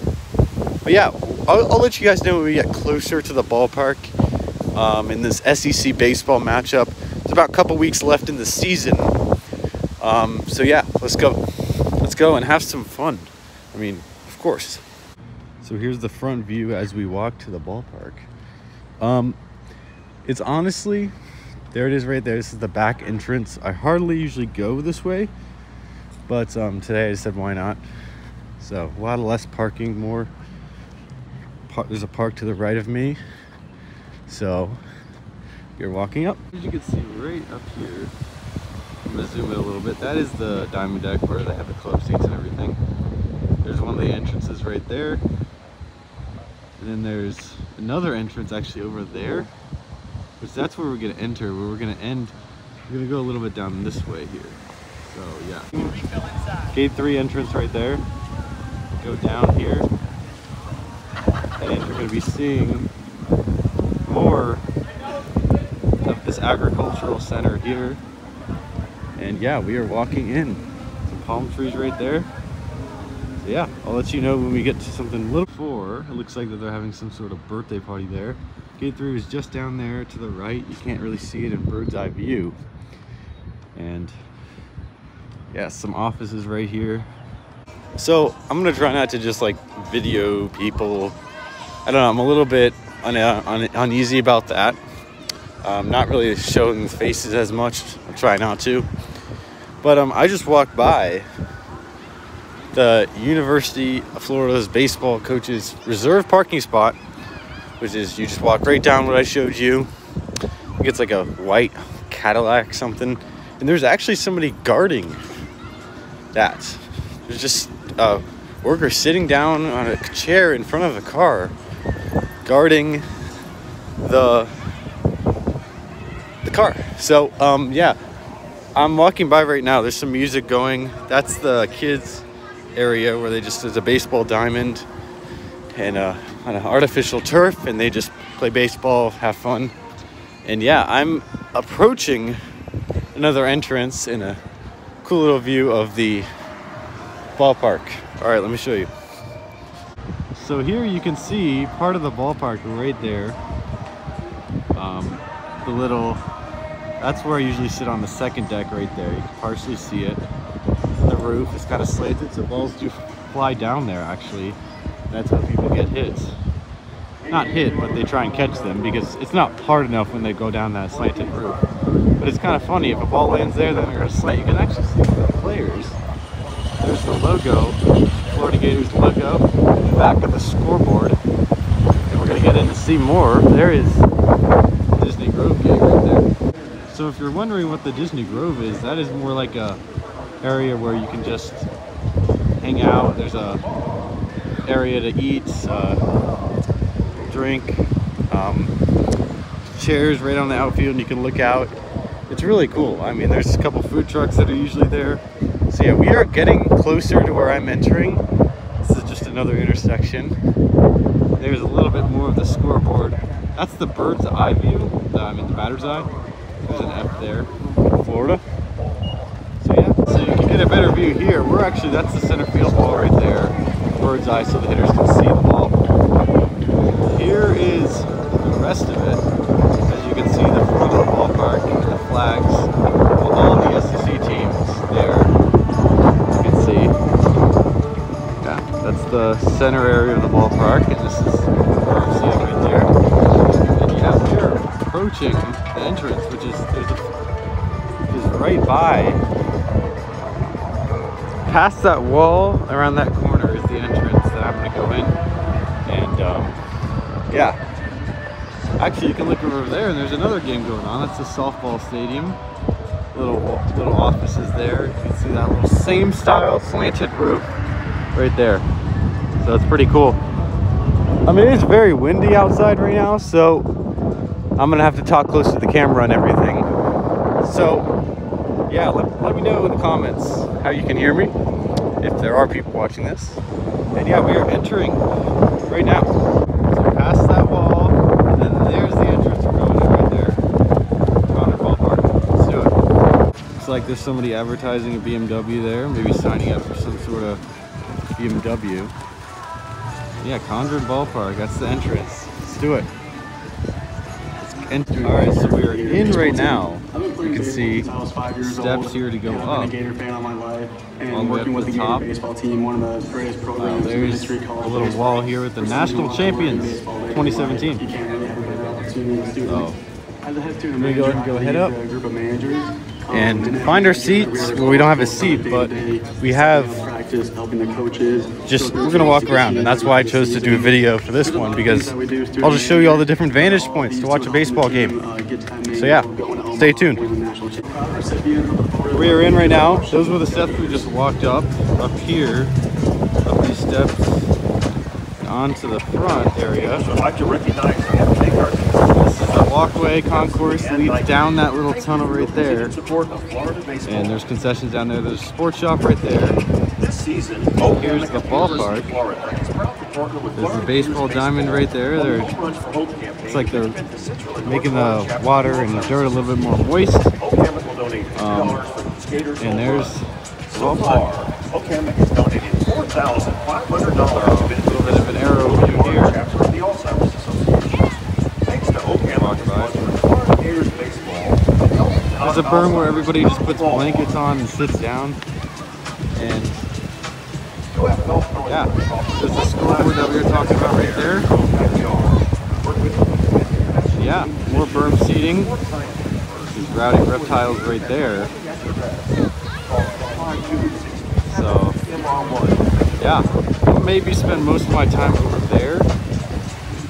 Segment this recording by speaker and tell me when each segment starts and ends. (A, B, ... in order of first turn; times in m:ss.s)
0:00.8-0:04.1 A
0:04.8-0:09.2 A
0:10.0-0:11.4 A
0:12.0-0:14.8 A
0:15.6-0:18.3 A
0:19.0-0:19.4 A
0:20.2-0:21.1 A
0:21.7-0:25.3 A
0:26.3-0:27.8 A
0:28.6-0:30.3 A
0:31.7-0:33.2 A
0:34.3-0:34.8 A
0:35.8-0:38.1 A
0:39.0-0:42.8 A
0:43.6-0:45.2 A
0:46.8-0:49.5 A
0:50.4-0:52.4 A
0:52.9-0:56.0 A
0:56.7-0:58.0 A
0:59.0-0:59.9 A
1:01.6-1:02.9 A
1:04.1-1:04.6 A
1:06.0-1:08.0 A
1:09.2-1:12.3 A
1:13.4-1:22.6 A
1:23.8-1:24.2 A
1:25.5-1:27.1 A
1:28.0-1:31.2 A
1:31.9-1:34.8 A
1:35.6-1:38.9 A
1:39.8-1:41.3 A
1:42.7-1:47.0 A
1:47.8-1:49.9 A
1:50.8-1:55.2 A
1:56.3-2:01.6 A
2:02.4-2:03.1 A
2:04.0-2:04.5 A
2:06.4-2:08.0 A
2:08.8-2:14.9 A
2:15.7-2:19.7 A
2:20.4-2:22.4 A
2:23.1-2:24.4 A
2:25.0-2:26.3 A
2:27.4-2:28.9 A
2:30.4-2:33.4 A
2:34.8-2:36.2 A
2:37.0-2:40.2 A
2:41.0-2:44.6 A
2:45.1-2:46.4 A
2:47.3-2:47.9 B
2:47.3-2:51.6 A
2:52.2-2:56.0 A
2:56.8-2:57.8 A
2:58.3-3:01.2 A
3:02.1-3:04.1 A
3:05.0-3:06.3 A
3:06.9-3:09.8 A
3:10.4-3:11.7 A
3:12.6-3:13.6 A
3:14.6-3:16.0 A
3:17.3-3:18.8 A
3:19.7-3:21.8 A
3:22.3-3:28.3 A
3:28.8-3:30.4 A
3:31.4-3:36.1 A
3:36.6-3:38.4 A
3:39.6-3:45.9 A
3:47.0-3:49.2 A
3:49.9-3:55.3 A
3:56.3-3:57.0 A
3:58.4-4:02.9 A
4:03.6-4:07.1 A
4:08.1-4:09.2 A
4:11.4-4:15.2 A
4:15.9-4:16.6 A
4:17.3-4:17.6 A
4:18.8-4:22.4 A
4:23.1-4:27.5 A
4:28.1-4:28.7 A
4:29.4-4:30.2 A
4:31.3-4:33.7 A
4:34.6-4:36.7 A
4:37.4-4:37.9 A
4:38.7-4:41.3 A
4:42.0-4:43.4 A
4:44.0-4:45.0 A
4:45.7-4:46.1 A
4:46.7-4:50.4 A
4:51.3-4:52.8 A
4:53.6-4:57.4 A
4:58.2-4:58.9 A
5:00.2-5:02.9 A
5:04.5-5:07.9 A
5:04.8-5:19.7 C
5:08.4-5:09.8 A
5:11.1-5:12.1 A
5:13.6-5:17.8 A
5:19.4-5:19.8 A
5:20.2-5:40.3 C
5:20.8-5:21.7 A
5:23.1-5:26.8 A
5:28.5-5:35.0 A
5:35.7-5:37.0 A
5:38.9-5:42.5 A
5:39.2-5:40.8 B
5:43.2-5:44.2 A
5:45.2-5:46.8 A
5:46.8-5:54.2 B
5:48.9-5:52.8 A
5:53.9-5:56.4 A
5:56.8-6:06.5 B
5:57.6-5:58.9 A
6:00.4-6:02.3 A
6:03.2-6:03.8 A
6:04.4-6:07.1 A
6:07.2-6:09.9 B
6:08.2-6:08.6 A
6:09.4-6:11.3 A
6:10.5-6:24.1 B
6:14.1-6:16.2 A
6:19.2-6:19.7 A
6:22.2-6:25.2 A
6:26.2-6:26.7 A
6:27.7-6:39.1 B
6:28.5-6:31.3 A
6:34.0-6:35.5 A
6:36.5-6:38.3 A
6:39.6-6:42.9 B
6:41.3-6:41.8 A
6:43.0-6:45.9 A